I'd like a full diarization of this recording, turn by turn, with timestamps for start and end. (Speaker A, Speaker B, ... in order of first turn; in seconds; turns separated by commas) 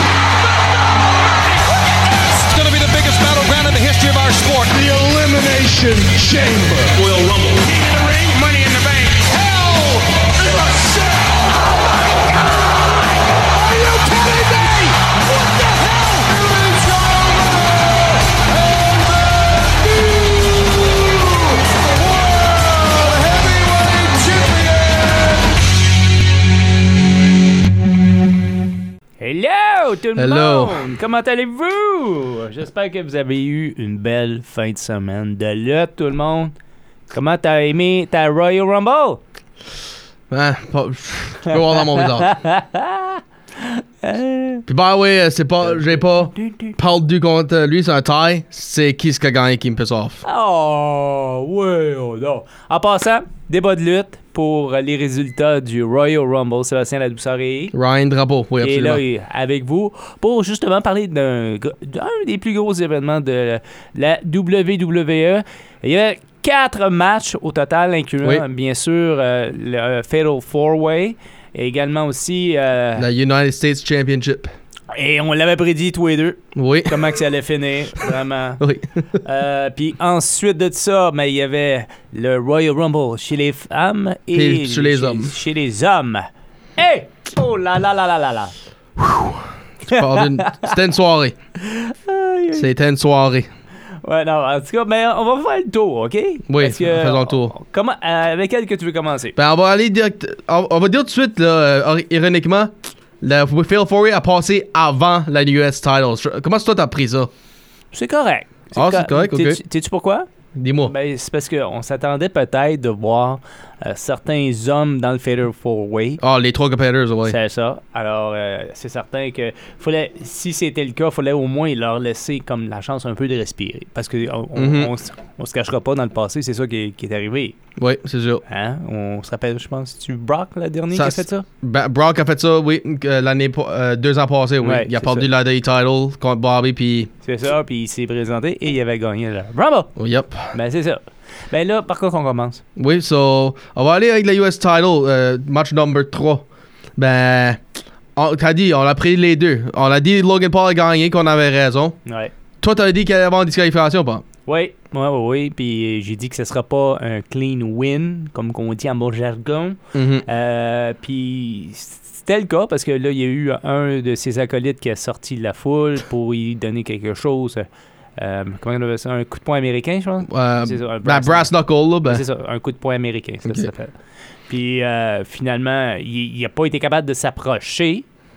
Speaker A: 2.0-11.5, Speaker A: 13.5-25.6, Speaker B: 29.2-36.5, Speaker C: 30.2-30.9, Speaker B: 37.1-39.2, Speaker C: 40.3-42.4, Speaker B: 41.7-44.6, Speaker C: 44.7-50.2, Speaker B: 45.6-46.7, Speaker B: 50.2-57.7, Speaker C: 57.7-59.0, Speaker B: 58.6-73.1, Speaker C: 73.0-74.5, Speaker B: 74.9-78.6, Speaker C: 76.6-77.2, Speaker C: 78.6-79.0, Speaker B: 79.2-86.3, Speaker C: 84.3-85.3, Speaker B: 86.8-88.5, Speaker C: 89.0-91.4, Speaker B: 89.9-90.7, Speaker B: 91.6-92.7, Speaker C: 92.5-93.5, Speaker B: 94.0-99.4, Speaker C: 96.5-97.5, Speaker C: 99.4-107.3, Speaker B: 107.9-110.3, Speaker C: 108.7-109.6, Speaker C: 110.6-110.9, Speaker B: 110.8-116.2, Speaker C: 116.2-117.4, Speaker B: 117.2-127.5, Speaker C: 124.6-124.9, Speaker C: 127.8-128.4, Speaker B: 128.5-131.4, Speaker C: 130.9-137.1, Speaker B: 134.6-135.3, Speaker B: 137.2-139.9, Speaker C: 140.0-140.5, Speaker B: 140.5-142.6, Speaker C: 142.8-146.5, Speaker C: 147.0-147.6, Speaker C: 148.2-152.0, Speaker B: 152.1-152.3, Speaker C: 152.6-154.2, Speaker B: 154.5-167.7, Speaker C: 159.9-160.2, Speaker B: 168.2-171.5, Speaker C: 170.3-172.2, Speaker B: 172.0-173.9, Speaker C: 173.4-173.7, Speaker B: 174.5-178.1